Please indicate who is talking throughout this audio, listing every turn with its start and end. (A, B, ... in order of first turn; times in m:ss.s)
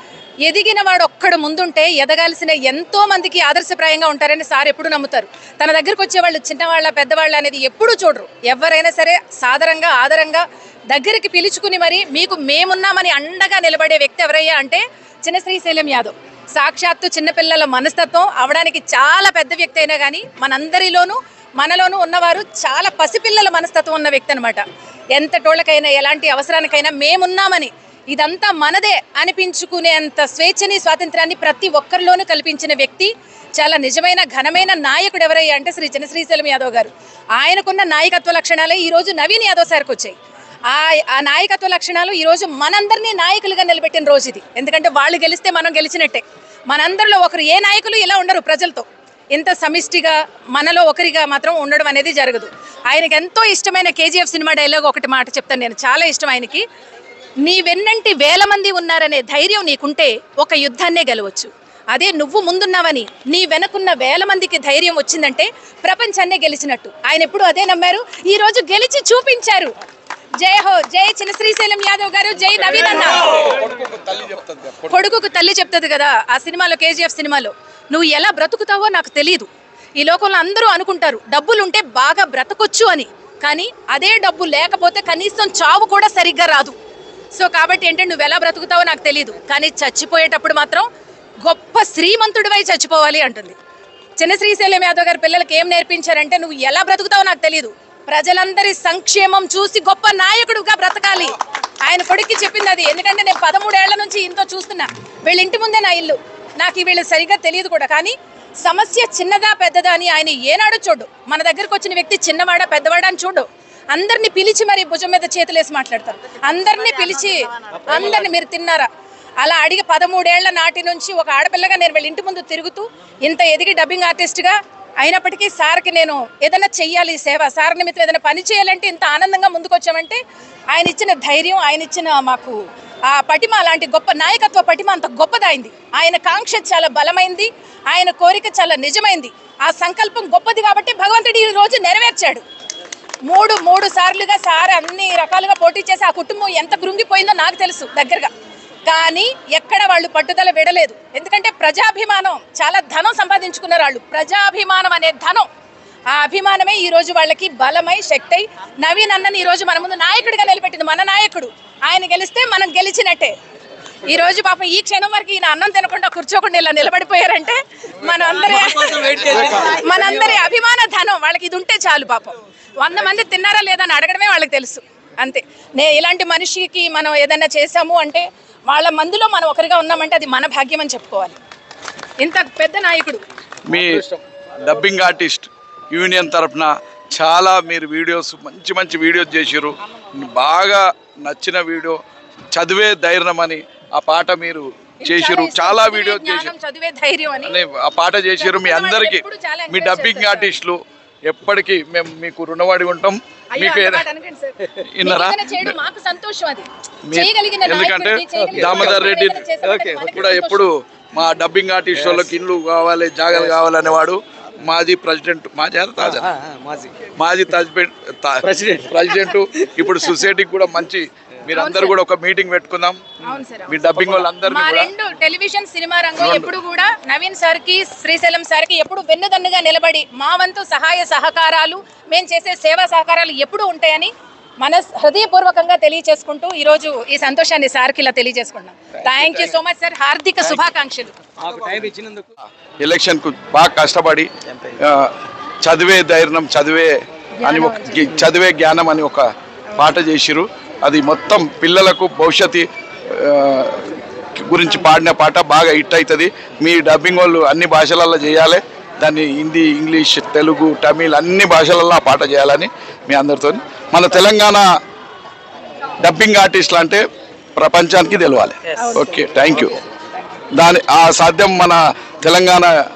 0:00.4-0:24.6 A
0:25.1-0:40.2 A
0:40.7-0:56.6 A
0:57.4-1:09.7 A
1:10.4-1:13.3 A
1:13.2-1:15.0 B
1:14.9-1:26.7 A
1:27.4-1:30.9 A
1:31.4-1:33.6 A
1:34.2-1:58.9 A
1:59.4-2:10.2 A
2:10.7-2:22.4 A
2:23.2-2:28.3 A
2:28.9-2:35.5 A
2:36.1-2:43.3 A
2:44.0-3:01.4 A
2:48.8-2:49.8 C
3:02.2-3:03.2 A
3:03.7-3:04.0 B
3:03.7-3:04.2 C
3:04.6-3:12.0 B
3:12.5-3:16.5 B
3:15.0-3:17.6 A
3:17.4-3:24.1 B
3:18.4-3:20.5 A
3:23.5-3:30.7 A
3:24.8-3:25.8 B
3:27.0-3:29.5 B
3:28.4-3:30.1 C
3:30.0-3:36.3 B
3:32.0-3:32.3 C
3:36.0-3:37.0 C
3:37.1-3:43.0 B
3:38.4-3:39.1 C
3:41.5-3:41.9 A
3:43.2-3:43.9 A
3:43.7-3:44.9 B
3:43.9-3:44.3 C
3:44.4-4:01.2 A
3:46.2-3:46.5 B
3:59.1-3:59.4 C
4:01.4-4:02.3 C
4:02.8-4:24.6 B
4:07.4-4:08.2 A
4:26.0-4:27.0 B
4:27.6-4:29.8 B
4:28.8-4:29.2 A
4:30.5-4:32.7 B